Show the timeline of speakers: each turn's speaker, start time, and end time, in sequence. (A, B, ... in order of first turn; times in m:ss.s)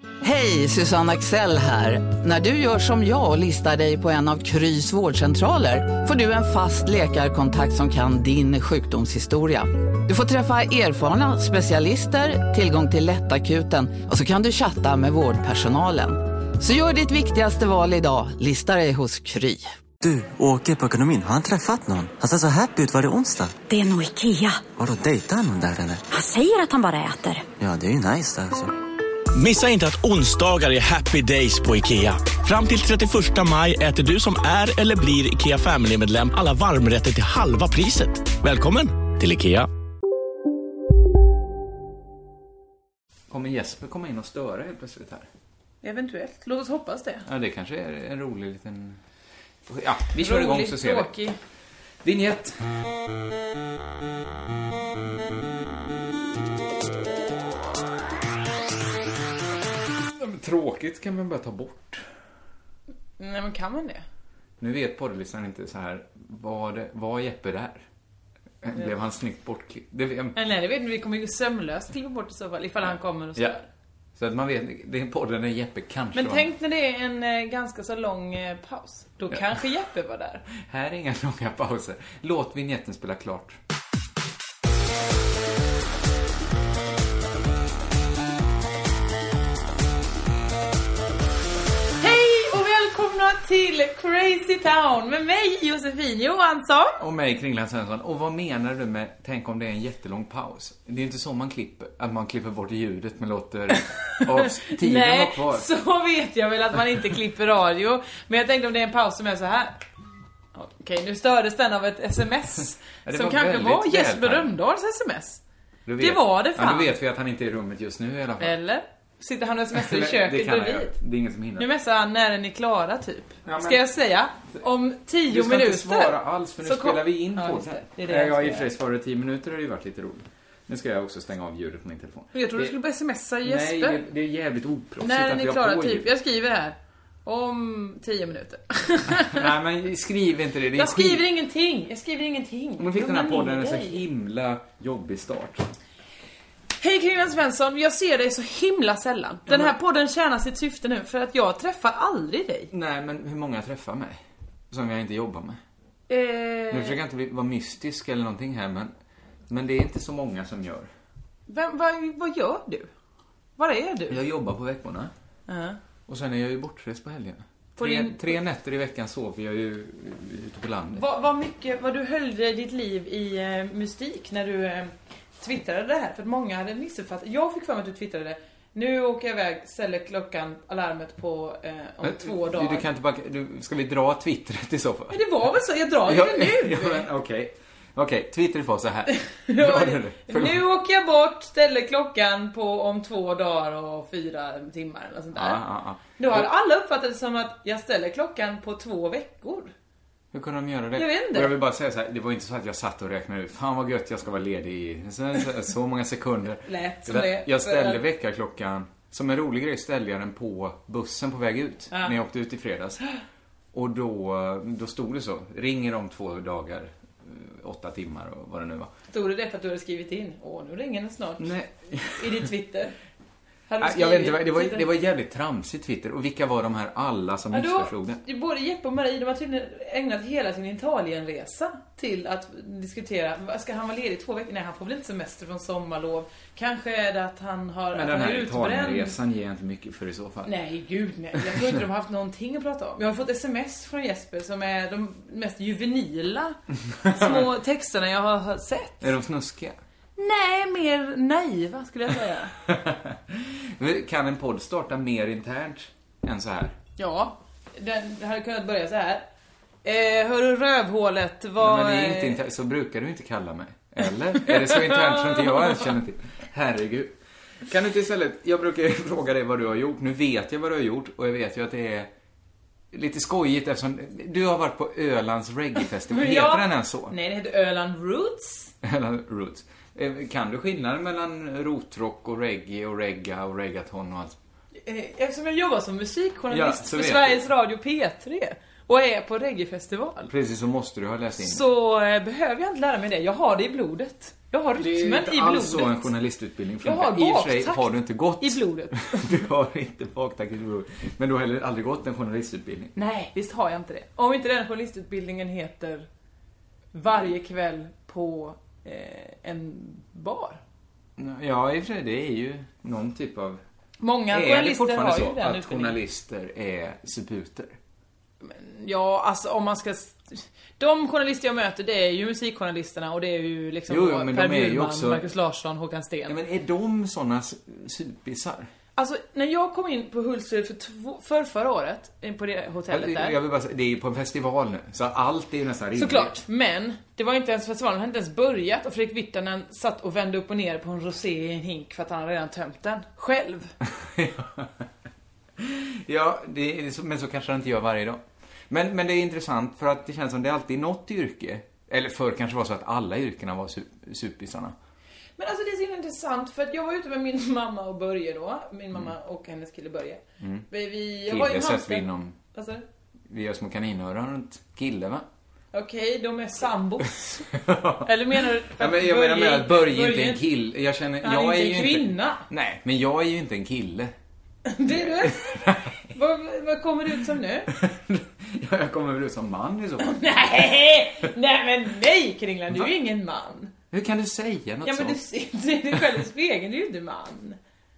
0:00.2-0:19.7 A
0:20.0-0:23.6 B
0:23.7-0:24.6 C
0:24.7-0:26.0 B
0:26.1-0:27.4 C
0:27.6-0:28.7 B
0:29.3-0:39.7 D
0:43.3-0:45.2 E
0:45.8-0:47.2 F
0:47.2-0:49.0 E
0:49.6-0:51.1 E
0:50.2-0:51.4 F
0:52.0-0:52.6 E
1:00.0-1:02.0 E
1:03.2-1:04.0 F
1:04.6-1:07.8 E
1:08.6-1:10.4 E
1:10.3-1:13.7 F
1:14.2-1:16.5 E
1:16.1-1:20.4 F
1:20.5-1:23.6 E
1:32.0-1:37.0 F
1:37.0-1:45.7 E
1:44.6-1:49.8 F
1:50.5-1:55.4 F
1:53.0-1:54.5 E
1:55.8-1:58.6 E
1:56.0-1:56.9 F
1:58.4-2:01.0 F
1:59.7-2:01.7 E
2:01.6-2:08.7 F
2:03.4-2:03.8 E
2:05.3-2:12.8 E
2:12.3-2:14.0 F
2:13.4-2:16.1 E
2:15.0-2:19.5 F
2:19.1-2:21.2 E
2:20.7-2:24.0 F
2:22.8-2:25.7 E
2:26.8-2:32.7 F
2:29.5-2:29.7 E
2:32.7-2:35.6 E
2:36.1-2:37.0 F
2:36.7-2:38.9 E
2:39.5-2:40.9 E
2:41.5-2:42.9 F
2:43.6-2:44.2 F
2:44.1-2:45.1 E
2:45.5-2:45.8 F
2:46.1-2:51.0 E
2:47.8-2:48.3 F
2:50.9-3:02.8 F
3:02.0-3:05.2 E
3:05.1-3:07.0 F
3:06.0-3:10.6 E
3:09.1-3:15.6 F
3:15.3-3:16.5 E
3:16.2-3:19.7 F
3:20.3-3:33.0 E
3:20.9-3:21.5 F
3:26.6-3:28.0 F
3:31.9-3:32.2 F
3:33.7-3:38.9 E
3:39.1-3:41.5 F
3:41.4-3:42.4 E
3:42.2-3:43.0 F
3:43.7-3:44.9 F
3:43.8-3:48.2 E
3:47.5-3:59.2 F
3:57.9-4:00.5 E
4:00.4-4:09.1 F
4:01.4-4:01.7 E
4:06.9-4:07.5 E
4:09.0-4:09.8 E
4:10.2-4:12.5 F
4:12.6-4:16.8 E
4:17.0-4:19.2 F
4:19.8-4:22.4 F
4:21.6-4:32.1 E
4:24.5-4:25.8 F
4:32.9-4:37.2 E
4:36.1-4:38.7 F
4:38.8-4:44.4 E
4:44.8-4:50.3 F
4:46.5-4:47.4 E
4:50.3-4:51.6 E
4:51.4-4:56.1 F
4:54.8-5:02.9 E
4:56.8-4:59.3 F
5:03.0-5:06.1 F
5:06.9-5:10.6 F
5:11.2-5:13.6 E
5:14.0-5:16.0 F
5:14.3-5:17.8 E
5:18.4-5:26.4 F
5:23.9-5:25.3 E
5:26.3-5:28.7 E
5:29.0-5:33.4 F
5:32.9-5:36.4 E
5:36.0-5:43.7 F
5:44.0-5:44.8 E
5:45.6-5:54.7 E
5:55.4-6:02.8 F
6:00.4-6:00.7 E
6:01.2-6:02.4 E
6:03.3-6:05.2 E
6:05.7-6:07.5 F
6:07.5-6:08.1 E
6:08.0-6:10.4 F
6:08.8-6:14.1 E
6:11.2-6:12.4 F
6:14.6-6:17.7 F
6:15.0-6:16.0 E
6:17.7-6:20.2 E
6:20.0-6:23.7 F
6:23.9-6:25.2 E
6:24.8-6:27.6 F